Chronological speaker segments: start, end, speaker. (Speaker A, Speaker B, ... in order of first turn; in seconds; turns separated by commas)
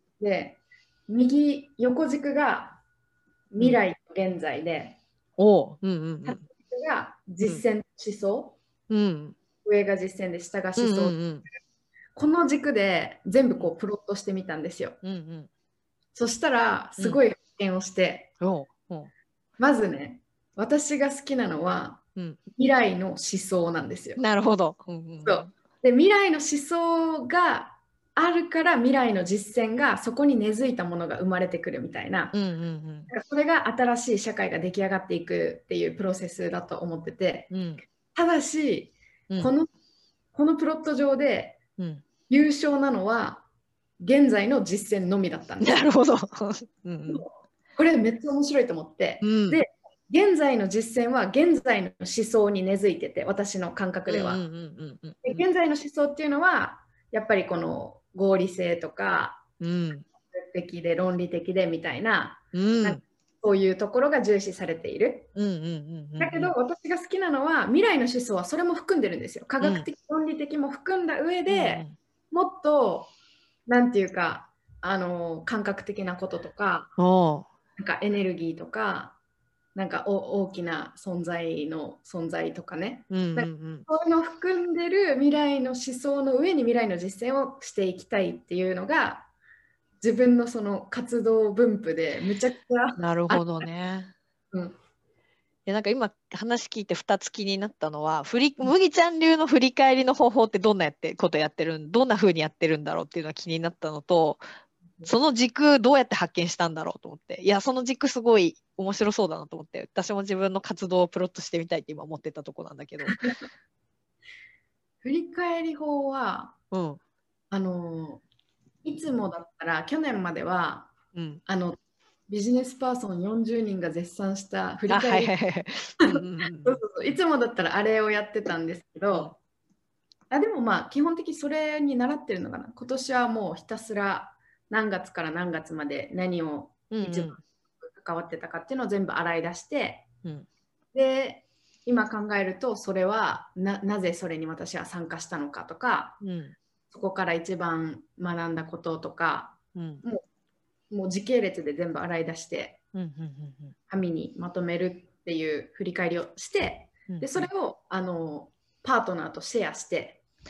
Speaker A: 0.2-2.8, Speaker A: 3.5-5.0, Speaker B: 5.4-6.4, Speaker A: 6.2-8.6, Speaker B: 8.9-9.4, Speaker A: 9.6-11.2, Speaker B: 10.8-11.5, Speaker A: 12.1-15.0, Speaker B: 15.0-15.5, Speaker A: 16.1-18.3, Speaker B: 18.4-19.1, Speaker A: 19.6-22.0, Speaker A: 22.6-24.2, Speaker B: 24.2-25.5, Speaker A: 25.2-32.3, Speaker B: 32.3-33.1, Speaker A: 33.1-37.5, Speaker B: 37.5-37.8, Speaker A: 38.1-39.7, Speaker A: 40.3-41.6, Speaker B: 41.8-42.0, Speaker A: 42.3-43.5, Speaker A: 44.0-45.9, Speaker B: 45.6-47.2, Speaker A: 47.1-54.4, Speaker B: 49.2-49.6, Speaker B: 54.1-55.4, Speaker A: 55.2-59.4, Speaker B: 59.6-60.0, Speaker A: 60.3-65.3, Speaker B: 62.5-63.0, Speaker B: 65.3-66.5, Speaker A: 66.2-73.1, Speaker B: 69.6-69.9, Speaker B: 71.5-72.0, Speaker A: 73.7-76.9, Speaker B: 77.0-77.5, Speaker A: 77.8-79.2, Speaker A: 79.7-89.3, Speaker B: 83.1-83.8, Speaker A: 90.0-93.6, Speaker B: 93.0-94.1, Speaker A: 94.5-94.8, Speaker B: 95.7-104.4, Speaker B: 105.0-113.2, Speaker A: 113.0-113.4, Speaker A: 115.0-116.5, Speaker B: 116.7-117.0, Speaker A: 117.5-118.2, Speaker A: 118.8-120.9, Speaker B: 121.1-121.4, Speaker A: 121.5-125.3, Speaker B: 124.9-126.8, Speaker A: 126.0-129.3, Speaker A: 130.3-140.1, Speaker B: 136.9-137.4, Speaker A: 140.9-146.2, Speaker B: 146.2-146.6, Speaker A: 146.9-150.2, Speaker B: 149.7-150.0, Speaker A: 150.9-152.8, Speaker B: 152.9-153.7, Speaker A: 153.9-160.2, Speaker B: 157.1-157.5